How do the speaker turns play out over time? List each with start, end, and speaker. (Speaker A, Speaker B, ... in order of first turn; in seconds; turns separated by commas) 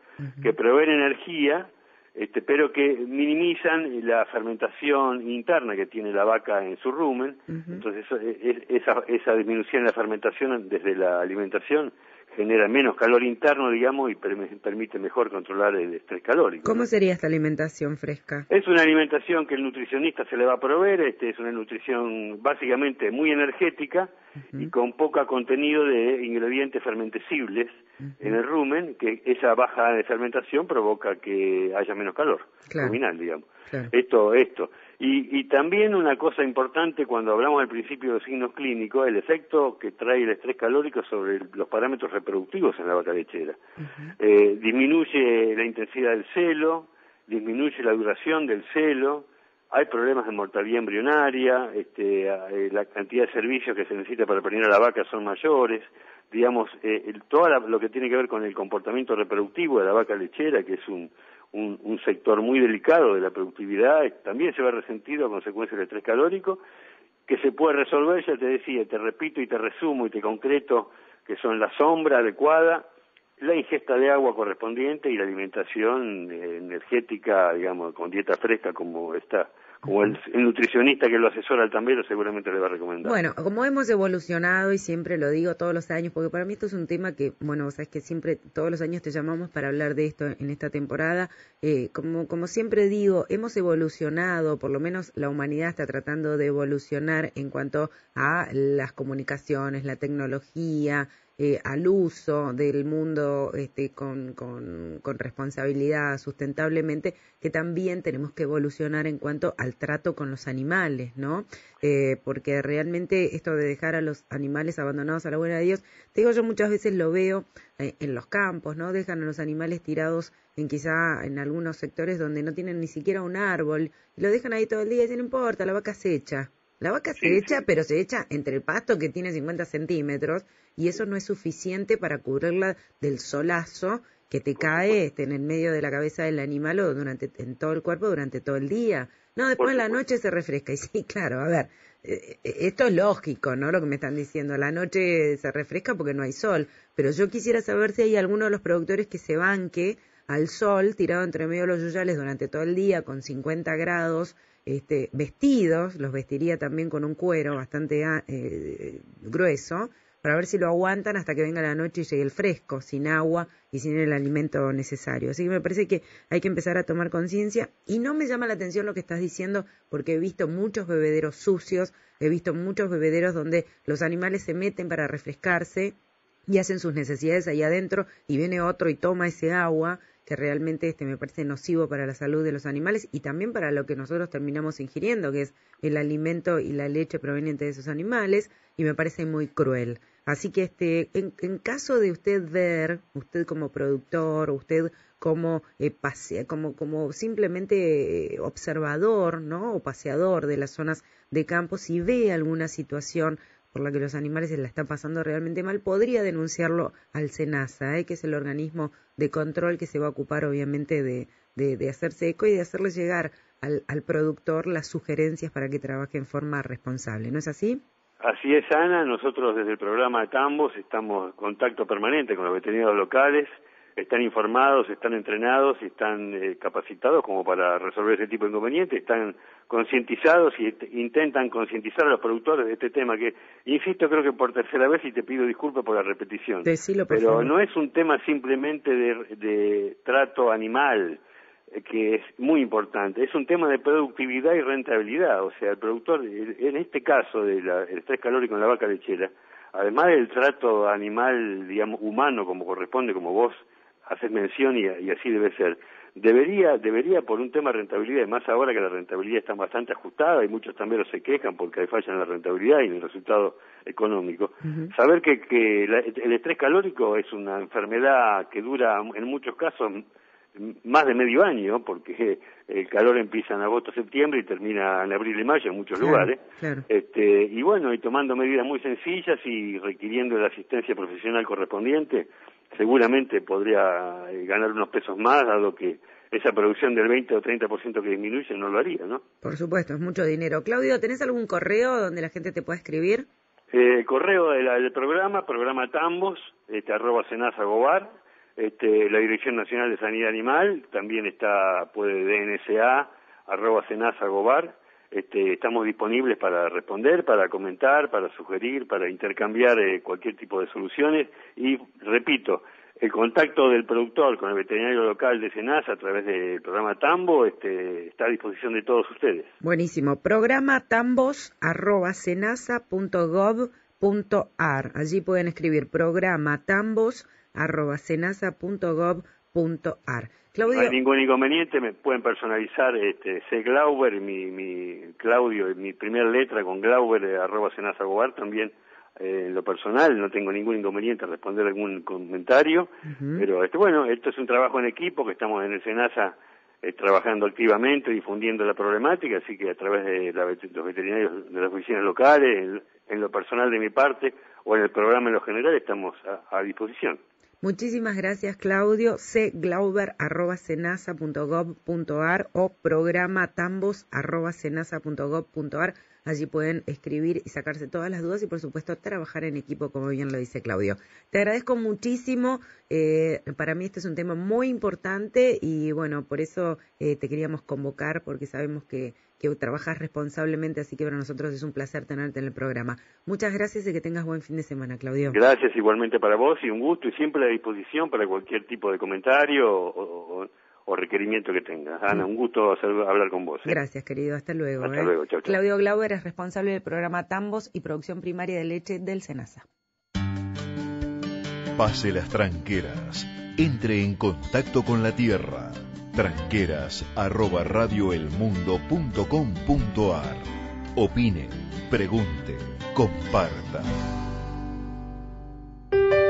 Speaker A: 0.2-0.6, Speaker B: 0.4-16.9, Speaker A: 7.5-7.8, Speaker A: 16.6-18.5, Speaker B: 18.5-43.6, Speaker A: 28.0-28.4, Speaker A: 32.7-33.0, Speaker A: 43.8-44.1, Speaker B: 44.2-66.6, Speaker B: 67.3-72.9, Speaker B: 73.4-83.2, Speaker A: 83.0-176.0, Speaker B: 127.2-127.6, Speaker B: 134.6-135.0, Speaker B: 139.6-139.9, Speaker A: 176.5-217.8, Speaker B: 218.2-241.2, Speaker A: 236.7-237.5, Speaker B: 241.8-270.0, Speaker A: 264.6-264.9, Speaker B: 270.6-289.2, Speaker A: 276.0-276.9, Speaker A: 289.4-293.3, Speaker B: 293.7-319.5, Speaker A: 319.6-331.0, Speaker B: 330.7-357.2, Speaker A: 343.1-343.5, Speaker A: 357.6-385.4, Speaker B: 385.3-393.8, Speaker A: 393.6-399.7, Speaker B: 394.8-395.6, Speaker C: 401.8-413.9